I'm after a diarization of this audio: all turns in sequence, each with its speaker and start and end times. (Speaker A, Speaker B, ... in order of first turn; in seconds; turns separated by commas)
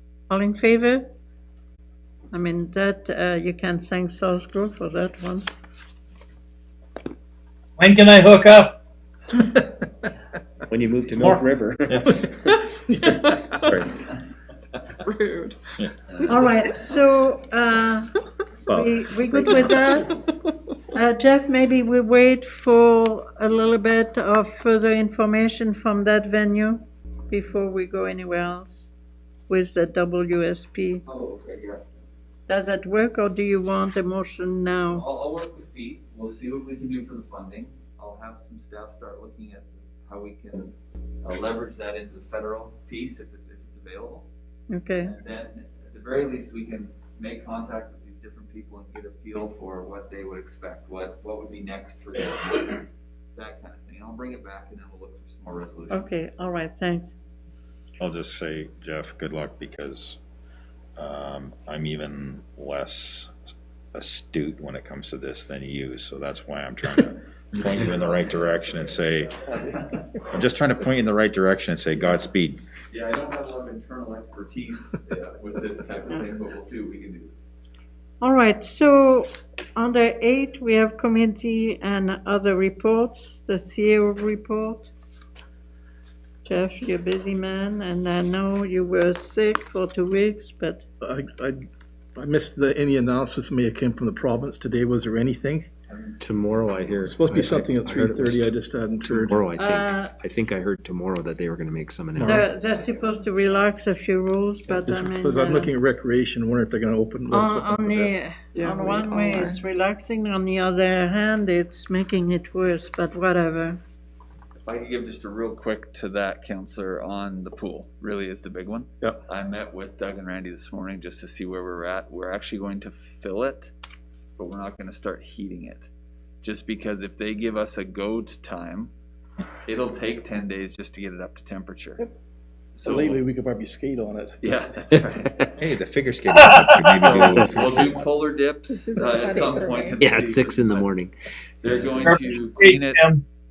Speaker A: 0.3-1.1, Speaker A: 2.3-5.5, Speaker B: 7.8-8.7, Speaker C: 10.7-12.2, Speaker D: 11.9-12.2, Speaker E: 12.2-13.6, Speaker C: 13.2-13.9, Speaker F: 15.1-15.6, Speaker A: 16.2-20.2, Speaker C: 19.3-19.7, Speaker A: 20.9-28.9, Speaker A: 29.5-31.0, Speaker G: 31.1-32.0, Speaker A: 32.5-35.0, Speaker G: 34.9-44.3, Speaker A: 44.7-45.1, Speaker G: 45.0-56.0, Speaker A: 55.9-57.1, Speaker D: 58.0-60.2, Speaker D: 61.0-63.3, Speaker D: 63.9-69.4, Speaker G: 67.6-70.0, Speaker D: 70.3-72.6, Speaker G: 72.9-77.3, Speaker A: 78.2-84.9, Speaker A: 86.5-90.8, Speaker E: 91.0-91.6, Speaker E: 92.2-95.7, Speaker G: 95.9-96.2, Speaker C: 96.2-102.5, Speaker E: 97.1-99.5, Speaker A: 99.6-100.1, Speaker E: 102.2-102.4, Speaker A: 102.2-105.7, Speaker G: 102.5-103.7, Speaker E: 104.8-108.1, Speaker A: 107.3-113.8, Speaker F: 108.5-109.6, Speaker G: 114.7-123.7, Speaker G: 124.4-125.9, Speaker G: 126.4-128.9, Speaker G: 129.7-132.1, Speaker G: 132.8-133.2, Speaker E: 132.8-134.4, Speaker G: 134.4-135.5, Speaker D: 135.6-138.3, Speaker B: 136.4-136.7, Speaker C: 137.0-137.8, Speaker G: 137.2-140.9, Speaker F: 138.9-140.1, Speaker C: 140.0-141.1, Speaker G: 141.6-143.0, Speaker B: 142.1-143.2